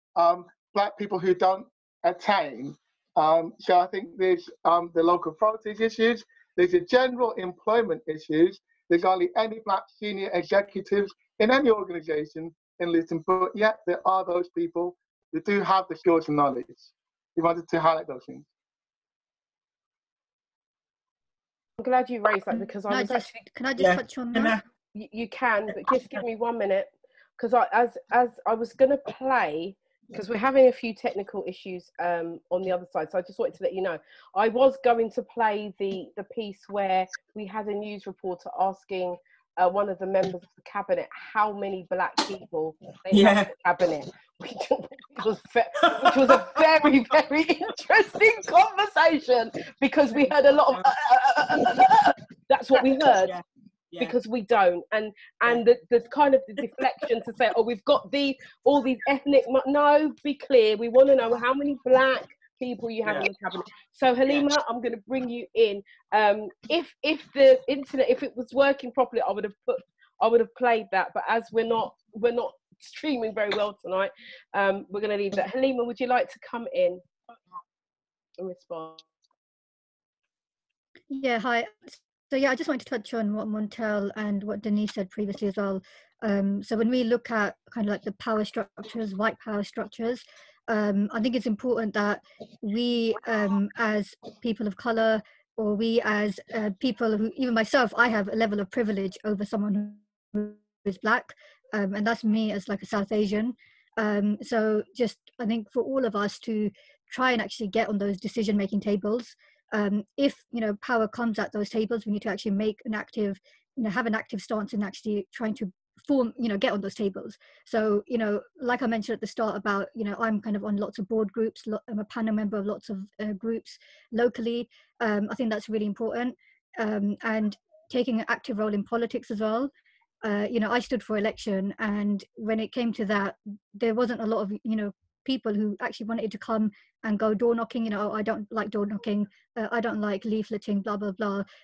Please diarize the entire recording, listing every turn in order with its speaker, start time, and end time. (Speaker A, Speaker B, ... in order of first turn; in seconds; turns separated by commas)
Speaker A: 0.2-18.4, Speaker B: 21.8-23.3, Speaker C: 22.5-24.6, Speaker D: 23.8-24.6, Speaker B: 24.9-53.3, Speaker D: 43.1-43.5, Speaker D: 45.8-46.5, Speaker D: 51.5-52.1, Speaker D: 52.7-54.1, Speaker B: 54.0-77.0, Speaker D: 63.0-63.3, Speaker B: 78.4-79.0, Speaker C: 81.1-129.7, Speaker C: 130.2-141.4